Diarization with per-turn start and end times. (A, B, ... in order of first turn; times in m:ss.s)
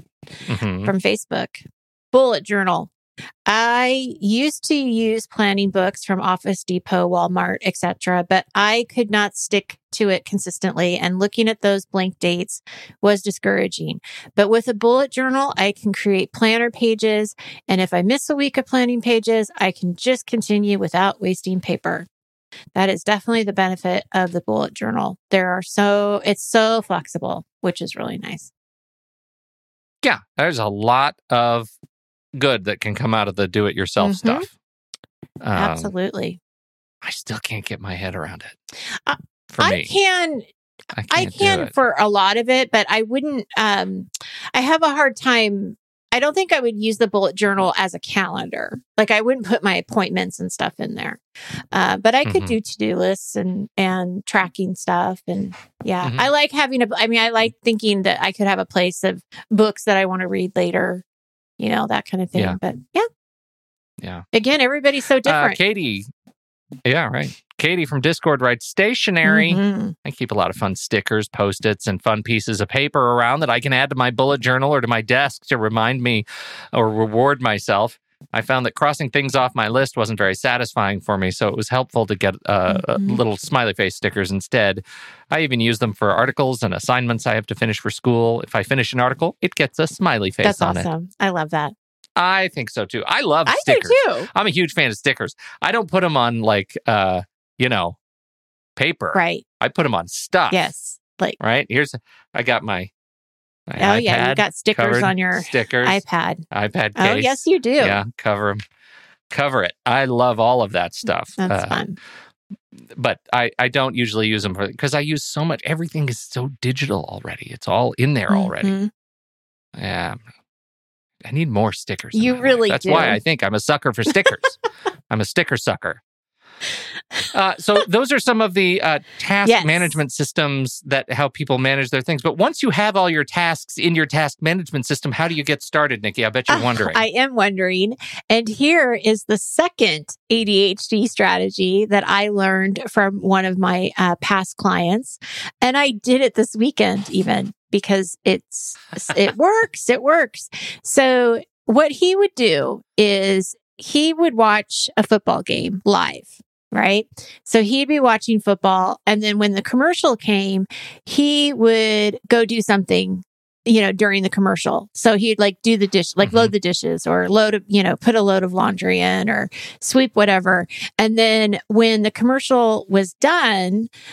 0:00.5-0:00.9 A
0:00.8-0:02.9 B
0:03.5-0:22.1 B
0:22.8-0:28.5 B
0:30.0-0:31.7 A
0:32.4-0:34.5 A
0:34.0-0:34.5 B
0:35.4-0:35.9 A
0:35.5-0:36.4 B
0:37.0-0:38.6 A
0:39.1-0:40.5 B
0:39.5-0:39.9 A
0:41.0-0:41.7 A
0:41.1-0:51.2 B
0:51.7-1:01.0 B
0:52.2-0:52.6 A
1:01.6-1:03.1 B
1:04.0-1:04.3 A
1:04.3-1:05.6 B
1:05.2-1:06.1 A
1:06.9-1:30.9 A
1:09.2-1:10.0 B
1:22.7-1:23.2 B
1:30.4-1:31.7 B
1:32.2-1:38.0 A
1:33.5-1:34.3 B
1:38.8-1:40.7 A
1:39.1-1:39.4 B
1:40.5-1:41.4 B
1:41.4-1:42.9 A
1:43.7-1:48.6 A
1:43.8-1:46.4 B
1:47.0-1:48.0 B
1:49.3-1:51.8 A
1:51.4-1:52.0 B
1:52.9-1:58.8 A
1:58.3-1:58.9 B
1:59.8-2:00.2 A
2:01.2-2:04.6 A
2:02.1-2:03.2 B
2:05.1-2:06.0 A
2:07.3-2:17.0 A
2:09.4-2:10.0 B
2:16.5-2:53.9 B
2:46.2-2:46.5 A